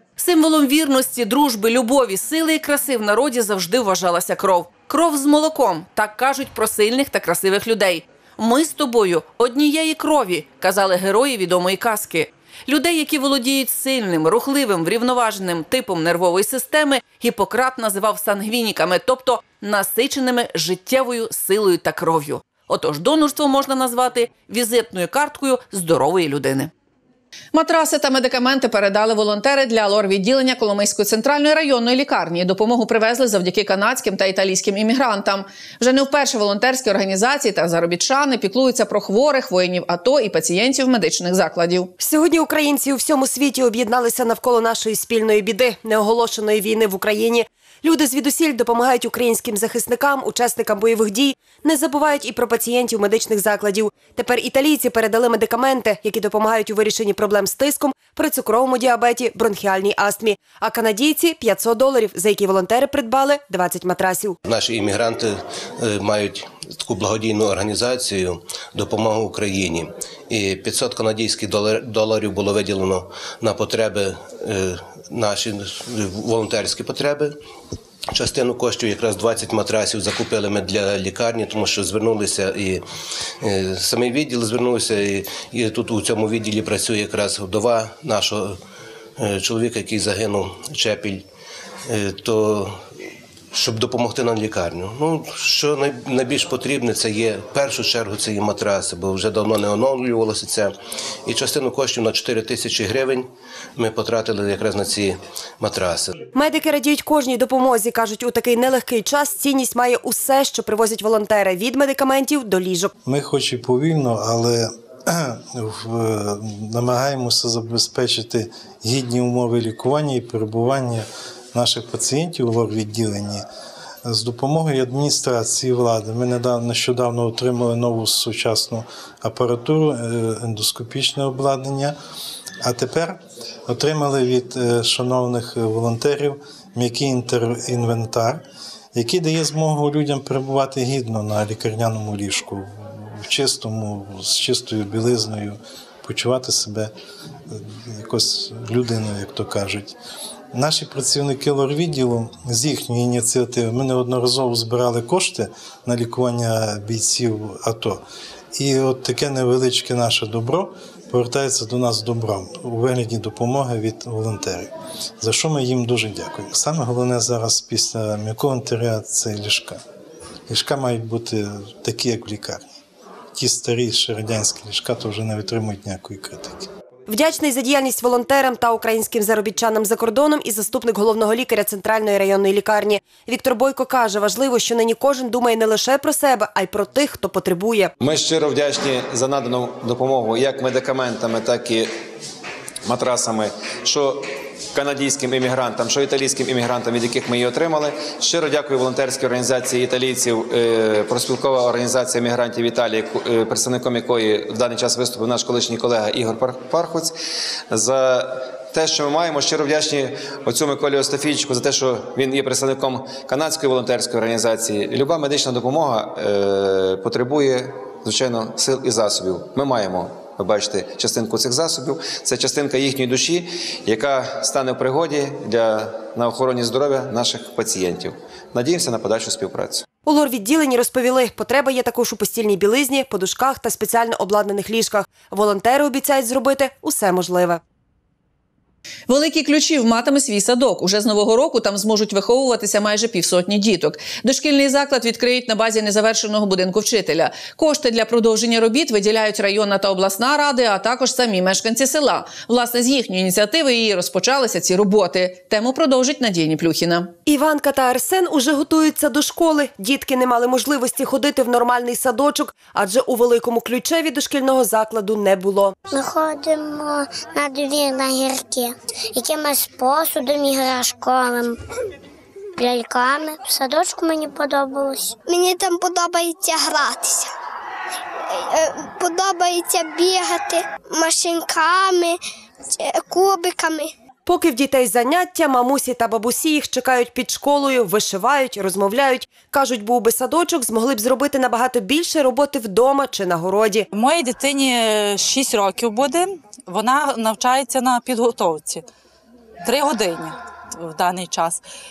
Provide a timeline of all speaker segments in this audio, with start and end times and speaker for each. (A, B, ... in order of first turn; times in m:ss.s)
0:00.2-0:26.7 A
0:27.5-0:41.9 A
0:42.0-1:04.4 B
1:04.4-1:17.3 C
1:18.1-1:22.8 C
1:23.4-1:28.6 C
1:29.2-1:31.2 C
1:31.9-1:32.9 C
1:33.5-1:40.7 C
1:41.2-1:46.3 C
1:46.3-1:52.9 B
1:53.0-2:03.4 D
2:04.0-2:11.9 D
2:12.6-2:18.4 D
2:18.9-2:26.9 D
2:27.5-2:29.9 D
2:30.5-2:38.0 D
2:38.5-2:49.8 D
2:50.5-2:52.7 D
2:53.3-2:56.7 D
2:57.1-3:07.9 B
3:08.0-3:11.9 E
3:12.8-3:27.1 E
3:27.7-3:49.8 E
3:50.0-3:57.6 B
3:59.1-4:17.1 A
4:17.2-4:25.7 B
4:25.9-4:31.5 F
4:32.6-4:35.2 F
4:44.2-4:53.9 B
4:53.9-4:58.8 G
4:59.6-5:01.6 G